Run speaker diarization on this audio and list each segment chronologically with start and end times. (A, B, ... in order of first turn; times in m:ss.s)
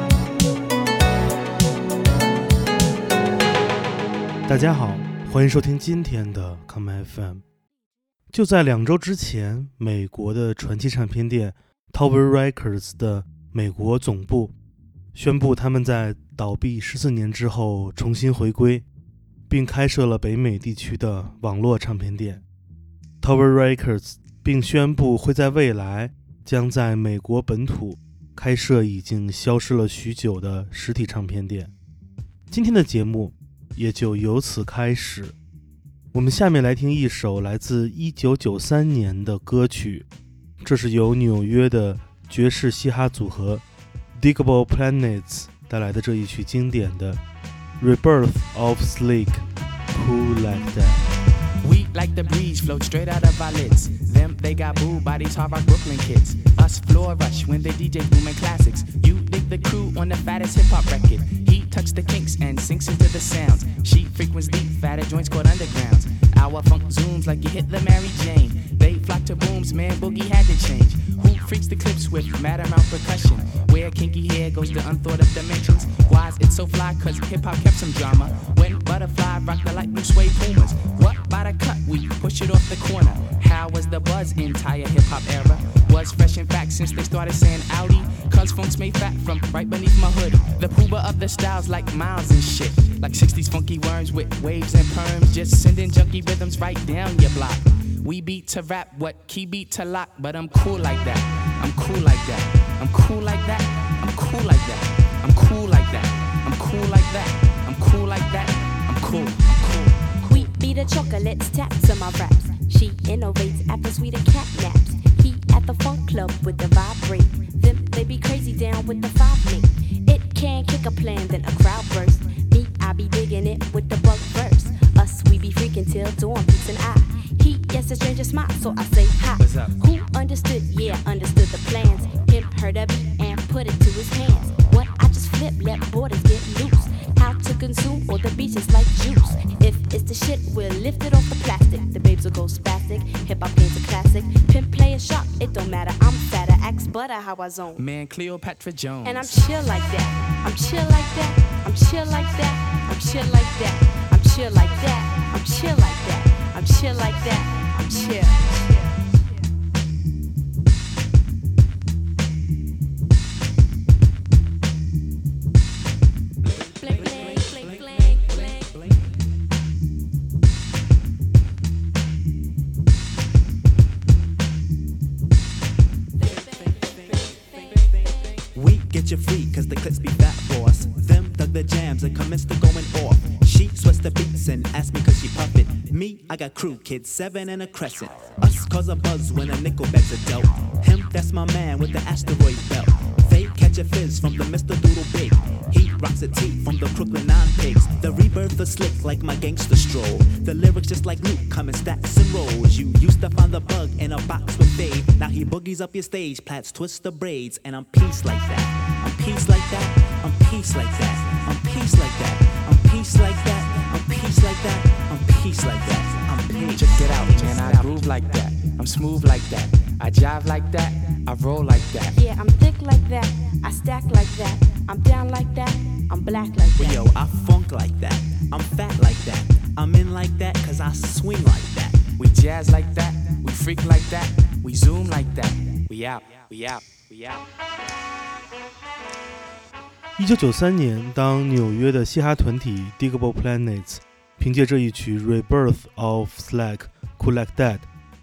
0:04.5-0:07.4 A
0:08.3-0:14.5 A
0:15.1-0:18.8 A
0:19.5-0:22.4 A
0:23.2-0:31.7 A
0:32.5-0:35.4 A
0:36.1-0:40.1 A
0:40.6-0:43.6 A
0:44.2-0:47.2 A
0:47.8-0:51.1 A
0:51.6-1:50.4 B
1:50.2-2:27.9 C
2:09.4-2:09.7 B
2:27.8-2:29.5 B
2:29.0-2:39.1 C
2:46.7-2:48.7 C
2:47.2-2:48.5 D
2:56.3-2:57.9 C
2:58.5-3:38.2 D
3:36.8-3:42.2 B
3:42.1-3:47.2 C
3:46.8-3:52.1 D
3:52.2-3:57.5 B
4:00.2-4:07.9 A